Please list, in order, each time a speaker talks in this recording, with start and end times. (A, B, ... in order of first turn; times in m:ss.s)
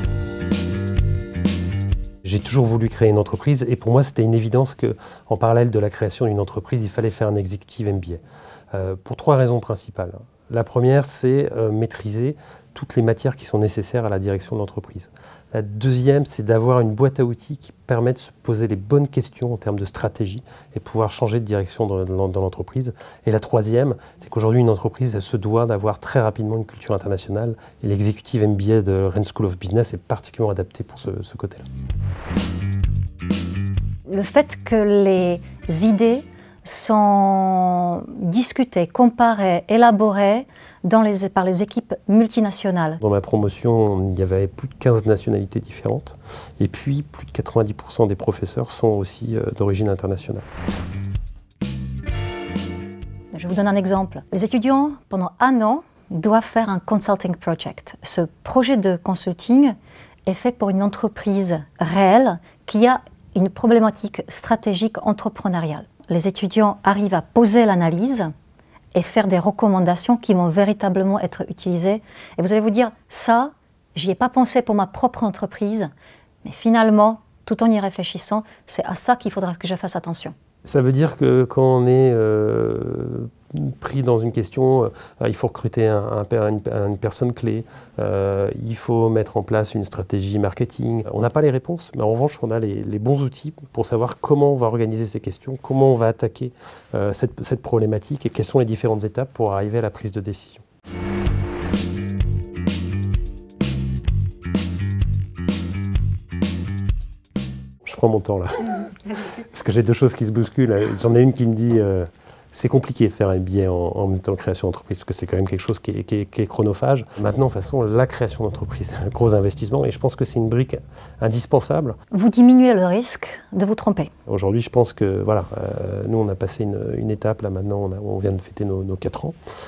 0:02.2-0:31.6 A
0:34.1-0:43.0 B
0:43.0-0:50.4 A
0:53.3-0:59.7 B
1:00.3-1:08.3 B
1:08.9-1:15.9 B
1:16.4-1:20.3 B
1:20.6-1:40.6 A
1:47.8-2:02.0 A
2:02.1-2:04.1 B
2:04.3-2:09.4 A